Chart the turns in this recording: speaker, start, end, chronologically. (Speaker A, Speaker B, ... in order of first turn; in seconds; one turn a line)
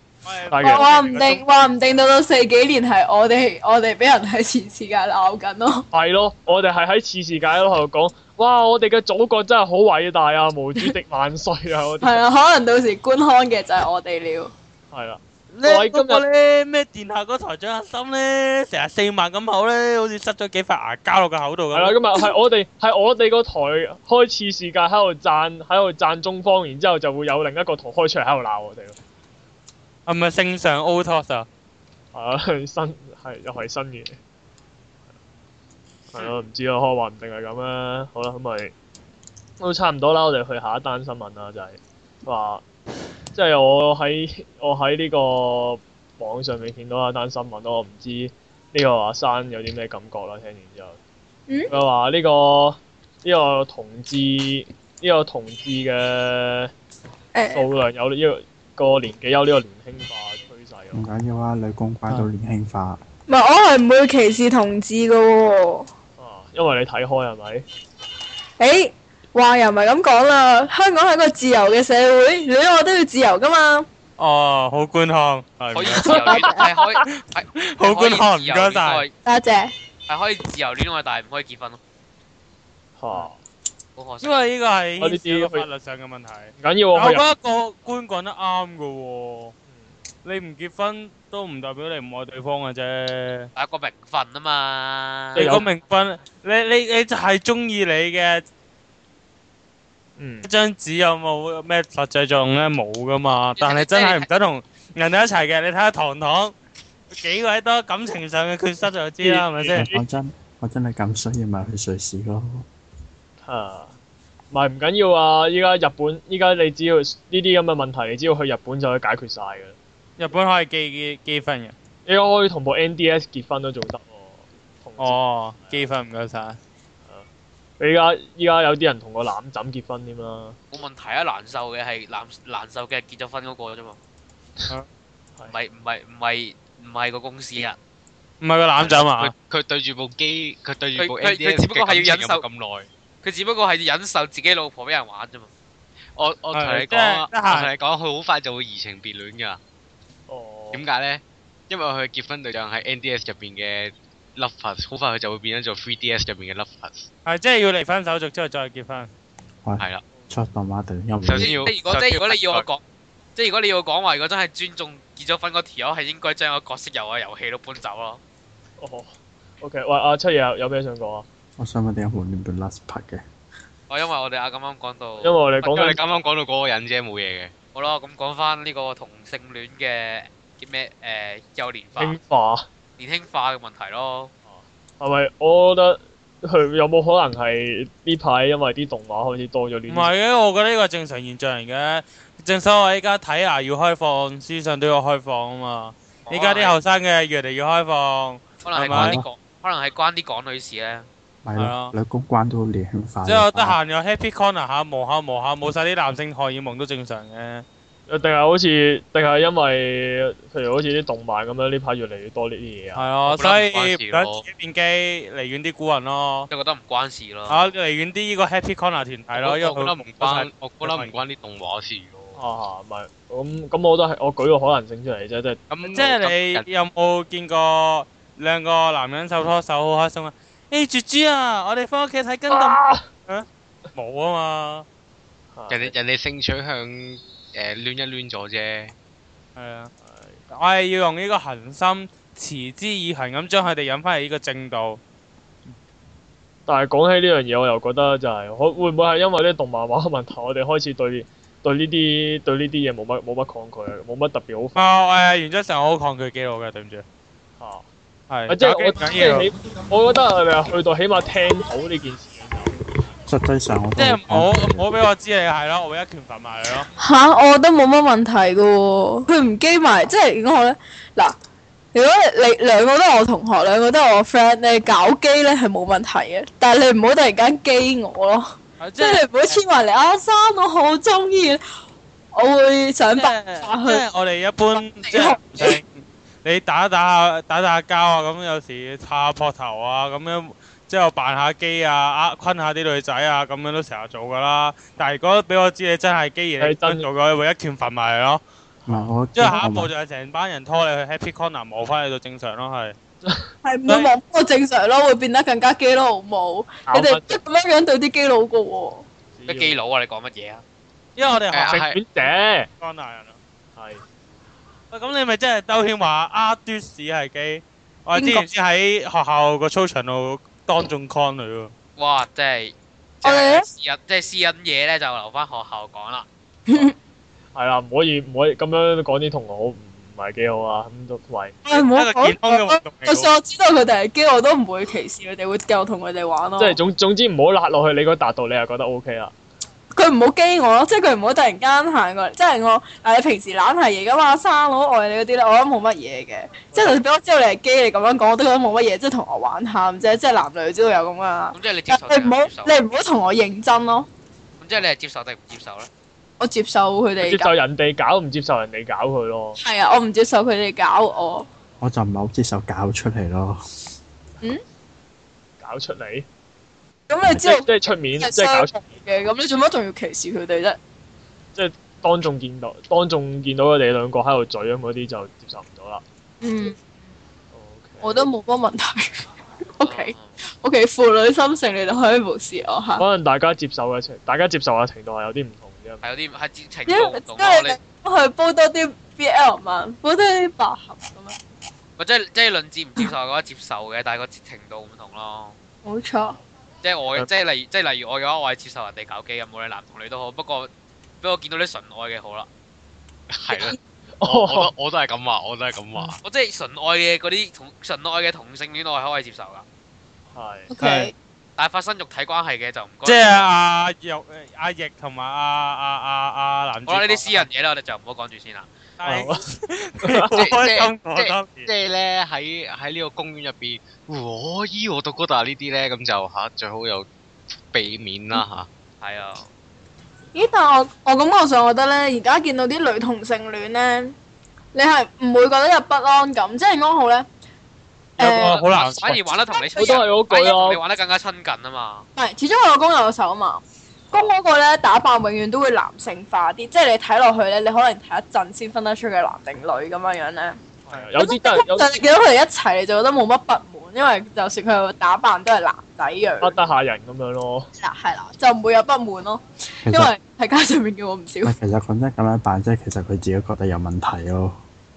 Speaker A: 0.2-1.9
Speaker B: 0.5-1.4
Speaker C: 0.6-5.8
Speaker B: 5.9-12.2
Speaker C: 12.0-14.5
Speaker B: 14.9-16.2
Speaker A: 15.5-22.0
Speaker B: 21.7-29.0
Speaker A: 30.1-31.4
Speaker B: 32.1-34.2
Speaker B: 36.1-38.7
Speaker B: 39.6-42.6
Speaker B: 43.3-51.0
Speaker B: 51.7-56.7
Speaker C: 57.3-57.6
Speaker B: 57.5-61.0
Speaker D: 60.9-63.0
Speaker C: 63.3-65.9
Speaker B: 66.2-67.6
Speaker C: 68.6-73.8
Speaker A: 74.2-76.5
Speaker E: 75.7-79.1
Speaker B: 76.1-76.7
Speaker C: 76.3-76.6
Speaker A: 77.0-79.0
Speaker C: 79.2-79.7
Speaker E: 80.1-81.8
Speaker B: 83.0-83.4
Speaker E: 84.0-84.4
Speaker A: 84.2-89.5
Speaker B: 85.0-85.7
Speaker B: 86.6-87.2
Speaker A: 90.2-93.5
Speaker E: 93.5-95.6
Speaker B: 95.3-95.7
Speaker A: 95.3-98.4
Speaker B: 100.2-100.5
Speaker A: 100.4-106.5
Speaker E: 103.6-104.3
Speaker A: 107.1-109.9
Speaker B: 109.2-110.0
Speaker D: 109.7-112.7
Speaker B: 113.4-113.9
Speaker B: 114.5-119.8
Speaker A: 120.2-121.7
Speaker B: 122.0-125.9
Speaker A: 125.0-126.6
Speaker B: 127.8-130.6
Speaker E: 130.7-134.0
Speaker E: 135.5-137.8
Speaker A: 138.4-139.3
Speaker F: 138.8-142.9
Speaker E: 141.0-142.4
Speaker E: 143.2-145.5
Speaker F: 146.2-149.6
Speaker A: 146.5-147.7
Speaker B: 150.3-150.8
Speaker F: 150.7-157.1
Speaker A: 157.2-159.1
Speaker D: 159.6-161.5
Speaker F: 161.2-162.7
Speaker E: 161.4-162.8
Speaker E: 163.3-168.2
Speaker B: 168.8-171.2
Speaker D: 171.6-173.2
Speaker E: 173.9-175.3
Speaker B: 175.2-176.0
Speaker F: 175.6-177.5
Speaker E: 177.7-182.2
Speaker B: 182.0-182.7
Speaker E: 183.0-184.3
Speaker B: 184.4-190.1
Speaker A: 189.9-199.2
Speaker E: 196.3-196.7
Speaker E: 198.6-201.1
Speaker D: 198.9-199.2
Speaker D: 201.4-203.8
Speaker A: 201.6-201.9
Speaker A: 203.2-207.6
Speaker B: 208.1-213.1
Speaker A: 212.9-216.5
Speaker F: 213.3-214.4
Speaker E: 216.5-217.7
Speaker A: 217.5-221.1
Speaker F: 219.3-222.4
Speaker B: 222.3-226.0
Speaker F: 225.7-226.7
Speaker A: 225.9-234.8
Speaker B: 232.5-233.1
Speaker B: 235.5-235.9
Speaker F: 235.7-238.9
Speaker A: 239.6-239.9
Speaker B: 240.0-240.4
Speaker A: 240.5-245.0
Speaker B: 246.7-254.8
Speaker A: 254.7-257.0
Speaker B: 257.6-257.9
Speaker A: 258.3-259.5
Speaker B: 258.5-262.8
Speaker D: 263.2-264.9
Speaker A: 264.0-266.9
Speaker C: 267.0-271.4
Speaker C: 271.9-281.6
Speaker A: 278.8-279.6
Speaker C: 282.3-284.0
Speaker A: 283.1-298.4
Speaker C: 284.7-285.8
Speaker B: 296.6-297.1
Speaker B: 298.8-299.1
Speaker D: 298.9-299.9
Speaker A: 299.3-302.9
Speaker B: 303.2-303.5
Speaker C: 303.6-309.0
Speaker B: 306.9-307.4
Speaker B: 309.4-309.8
Speaker E: 309.5-310.6
Speaker A: 311.1-313.4
Speaker F: 311.5-312.0
Speaker B: 311.7-312.7
Speaker B: 313.8-314.0
Speaker A: 314.9-321.7
Speaker C: 318.1-318.4
Speaker E: 322.0-326.3
Speaker C: 323.2-323.6
Speaker C: 326.7-326.9
Speaker B: 327.5-331.6
Speaker A: 331.7-333.3
Speaker C: 331.7-336.8
Speaker B: 336.6-339.3
Speaker C: 339.9-354.1
Speaker B: 346.7-347.0
Speaker E: 351.5-352.8
Speaker E: 354.6-355.9
Speaker C: 356.4-357.5
Speaker B: 357.2-359.6
Speaker C: 359.6-361.5
Speaker D: 361.8-363.6
Speaker B: 365.6-366.3
Speaker C: 367.1-370.8
Speaker B: 367.4-368.7
Speaker B: 371.5-376.0
Speaker C: 376.4-376.8
Speaker B: 377.5-378.3
Speaker C: 378.0-383.0
Speaker E: 379.8-380.4
Speaker B: 383.0-386.0
Speaker E: 386.0-387.8
Speaker C: 386.9-391.4
Speaker E: 392.0-395.6
Speaker C: 395.8-396.4
Speaker E: 396.8-400.7
Speaker E: 401.2-402.5
Speaker F: 403.3-406.2
Speaker C: 403.5-403.8
Speaker B: 404.2-404.7
Speaker E: 406.2-409.6
Speaker B: 410.3-410.7
Speaker C: 410.7-411.1
Speaker A: 410.8-411.1
Speaker E: 411.6-413.5
Speaker A: 413.0-417.5
Speaker E: 416.9-418.7
Speaker A: 419.0-421.7
Speaker B: 419.0-419.4
Speaker B: 420.0-420.3
Speaker F: 420.3-427.1
Speaker F: 427.7-428.7
Speaker E: 429.0-429.5
Speaker C: 430.3-434.1
Speaker C: 434.7-437.3
Speaker C: 438.2-438.6
Speaker A: 438.2-439.2
Speaker E: 438.4-442.1
Speaker C: 439.5-440.0
Speaker B: 439.8-440.8
Speaker C: 442.1-450.6
Speaker B: 450.8-452.0
Speaker C: 451.2-456.6
Speaker B: 456.4-457.7
Speaker C: 457.8-461.5
Speaker D: 459.8-460.1
Speaker D: 461.4-464.6